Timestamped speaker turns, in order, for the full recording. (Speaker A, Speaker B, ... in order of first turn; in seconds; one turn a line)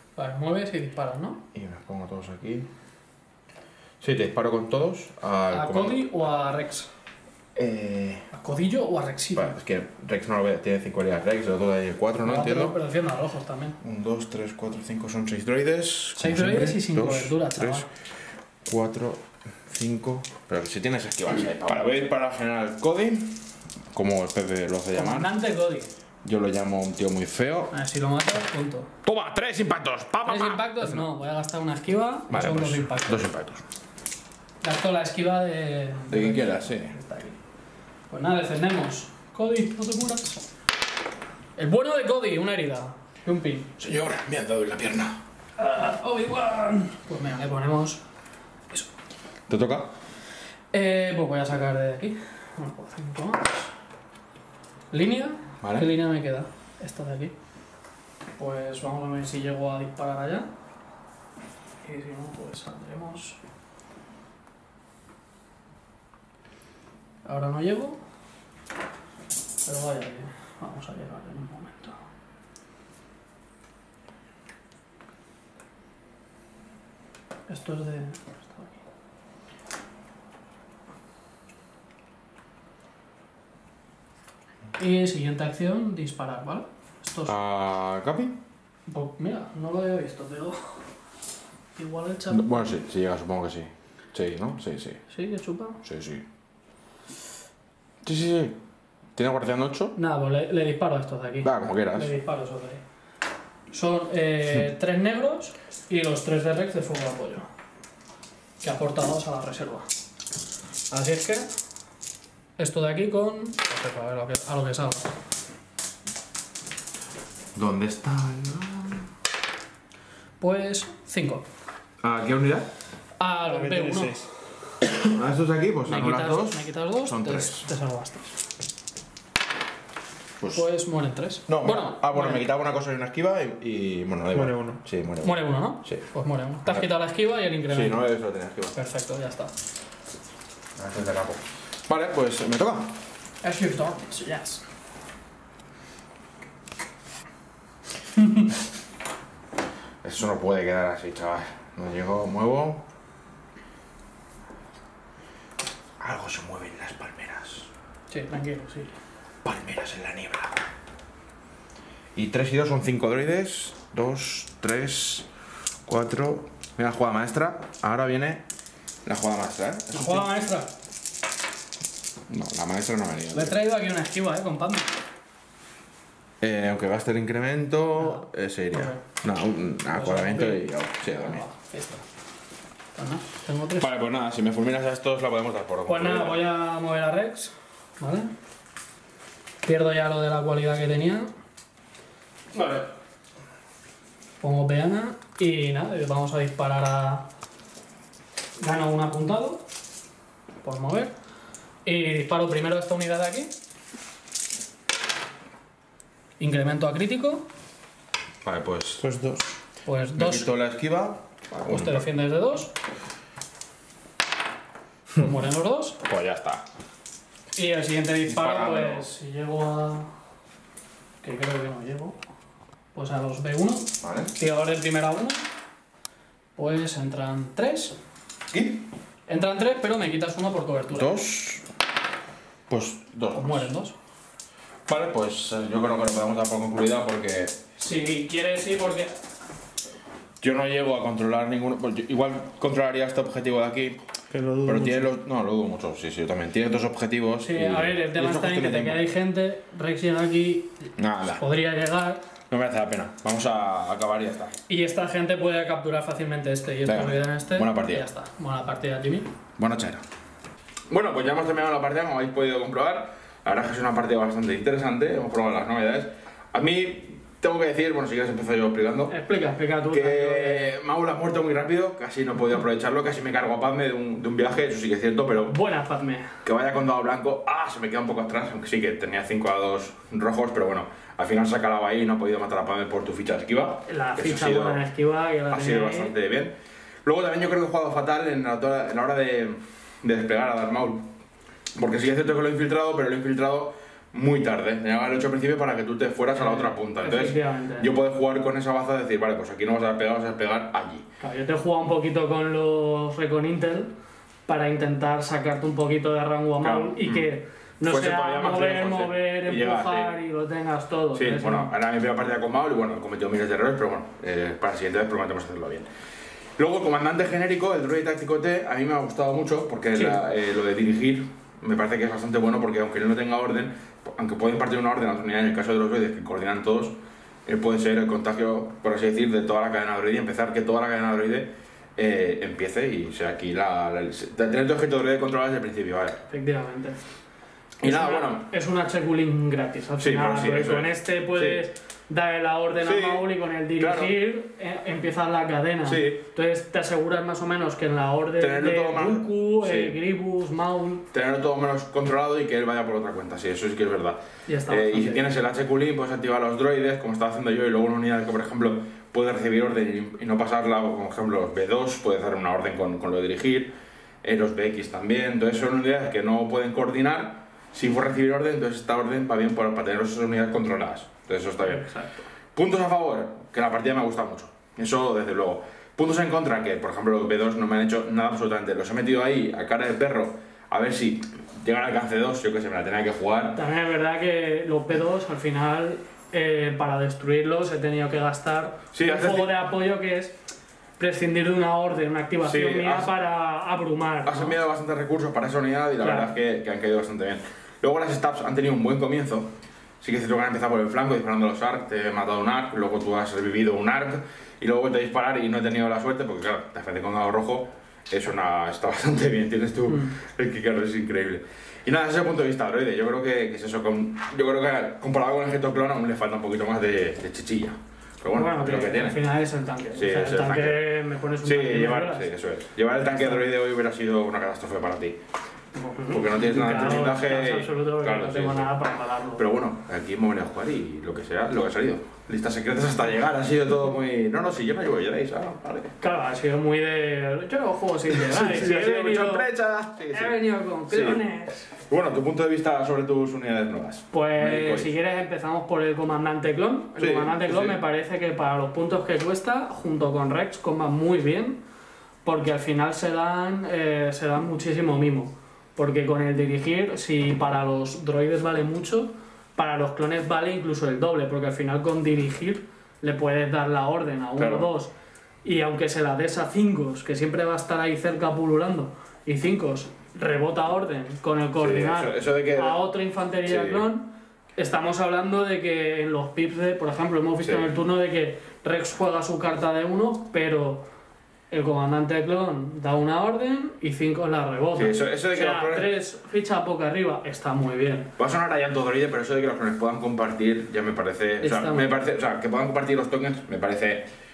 Speaker A: 0.2-1.4
Speaker B: 1.5-2.7
Speaker B: 4.0-6.1
Speaker A: 5.5-6.9
Speaker B: 7.5-8.3
Speaker A: 8.3-9.5
Speaker B: 9.3-12.8
Speaker A: 12.2-13.8
Speaker B: 13.8-17.9
Speaker A: 16.2-17.9
Speaker B: 18.6-25.3
Speaker A: 24.9-25.9
Speaker B: 26.2-27.7
Speaker A: 27.7-28.9
Speaker B: 29.0-31.1
Speaker A: 30.2-33.3
Speaker B: 32.3-33.6
Speaker A: 34.6-37.4
Speaker B: 36.1-37.0
Speaker A: 38.1-40.4
Speaker A: 41.6-43.8
Speaker B: 43.8-45.2
Speaker A: 45.6-48.0
Speaker B: 49.5-49.9
Speaker A: 50.7-53.7
Speaker A: 54.9-57.3
Speaker B: 55.6-55.9
Speaker A: 58.4-60.5
Speaker A: 61.8-63.4
Speaker A: 67.2-68.0
Speaker A: 69.7-72.0
Speaker A: 77.5-78.8
Speaker A: 84.8-87.4
Speaker B: 87.3-88.4
Speaker A: 88.9-90.8
Speaker A: 91.8-92.7
Speaker B: 92.3-95.0
Speaker A: 95.1-95.8
Speaker B: 95.8-96.3
Speaker B: 98.0-98.6
Speaker B: 99.2-100.0
Speaker A: 100.0-102.8
Speaker B: 101.4-102.2
Speaker A: 103.7-107.5
Speaker A: 108.6-109.9
Speaker A: 110.9-111.5
Speaker A: 112.6-115.1
Speaker B: 117.5-119.1
Speaker A: 120.4-121.5
Speaker B: 122.0-122.7
Speaker A: 123.2-124.3
Speaker C: 123.5-124.3
Speaker B: 124.9-127.7
Speaker A: 125.9-128.4
Speaker A: 130.5-132.5
Speaker B: 131.5-136.1
Speaker C: 134.3-134.8
Speaker A: 135.2-138.1
Speaker B: 137.7-138.8
Speaker A: 138.7-139.5
Speaker B: 140.8-143.0
Speaker A: 143.4-144.6
Speaker A: 148.2-148.5
Speaker B: 150.0-152.8
Speaker B: 156.0-157.7
Speaker A: 158.1-158.9
Speaker B: 159.4-160.6
Speaker B: 162.2-165.3
Speaker B: 165.9-168.4
Speaker B: 169.1-170.3
Speaker A: 169.9-170.7
Speaker B: 172.3-173.6
Speaker A: 173.3-175.0
Speaker B: 176.4-181.4
Speaker A: 178.0-179.0
Speaker A: 179.9-182.1
Speaker A: 182.9-183.9
Speaker B: 183.8-186.4
Speaker A: 185.9-188.3
Speaker A: 189.6-191.3
Speaker B: 192.5-192.8
Speaker A: 194.4-197.3
Speaker A: 198.6-199.7
Speaker A: 200.6-201.1
Speaker A: 201.8-203.5
Speaker A: 206.4-207.5
Speaker B: 208.4-209.0
Speaker C: 209.0-209.5
Speaker A: 209.8-210.5
Speaker B: 210.1-212.1
Speaker A: 211.5-212.7
Speaker A: 215.2-216.0
Speaker B: 216.0-216.6
Speaker A: 217.6-220.1
Speaker B: 218.3-219.1
Speaker A: 221.2-222.2
Speaker A: 222.9-225.4
Speaker B: 224.0-224.3
Speaker A: 226.6-228.0
Speaker B: 228.5-228.9
Speaker A: 229.3-231.2
Speaker B: 230.9-231.7
Speaker B: 232.7-233.7
Speaker A: 233.3-234.0
Speaker B: 234.9-237.6
Speaker A: 237.8-239.1
Speaker B: 240.4-244.0
Speaker C: 244.3-245.1
Speaker B: 244.7-249.1
Speaker A: 247.4-252.3
Speaker B: 251.0-251.5
Speaker B: 252.5-254.6
Speaker A: 254.7-259.3
Speaker B: 256.9-258.1
Speaker B: 259.6-260.0
Speaker B: 260.9-269.1
Speaker A: 269.1-270.7
Speaker B: 269.9-275.6
Speaker A: 275.5-276.4
Speaker B: 276.4-284.8
Speaker A: 283.9-286.1
Speaker B: 285.5-291.1
Speaker B: 291.8-301.1
Speaker A: 296.3-297.9
Speaker A: 301.2-303.9
Speaker A: 304.5-311.7
Speaker B: 306.6-307.3
Speaker B: 307.9-310.1
Speaker B: 311.1-315.9
Speaker B: 316.6-336.2
Speaker A: 336.3-337.0
Speaker B: 337.8-338.5
Speaker A: 337.8-351.1
Speaker B: 340.0-341.6
Speaker B: 342.8-344.2
Speaker B: 345.9-346.2
Speaker B: 348.4-350.0
Speaker B: 351.1-371.9
Speaker A: 354.5-355.3
Speaker A: 371.6-372.2
Speaker B: 372.5-383.6
Speaker A: 383.5-390.4
Speaker B: 388.9-389.6
Speaker A: 391.0-394.6
Speaker B: 392.4-393.1
Speaker B: 394.2-419.2
Speaker A: 396.0-396.4
Speaker A: 409.9-410.2
Speaker A: 418.3-422.3
Speaker B: 419.9-425.2
Speaker A: 425.8-429.4
Speaker B: 426.1-428.8
Speaker B: 429.3-435.9
Speaker A: 436.0-439.5
Speaker B: 438.1-444.9
Speaker A: 440.1-441.7
Speaker A: 444.1-451.6
Speaker B: 447.0-447.8
Speaker A: 452.2-464.9
Speaker B: 464.4-464.7
Speaker A: 465.4-480.9
Speaker B: 471.6-472.8
Speaker B: 473.4-473.9
Speaker B: 477.4-477.7
Speaker A: 481.5-488.1
Speaker B: 484.8-485.9
Speaker B: 488.2-494.1
Speaker A: 491.4-492.0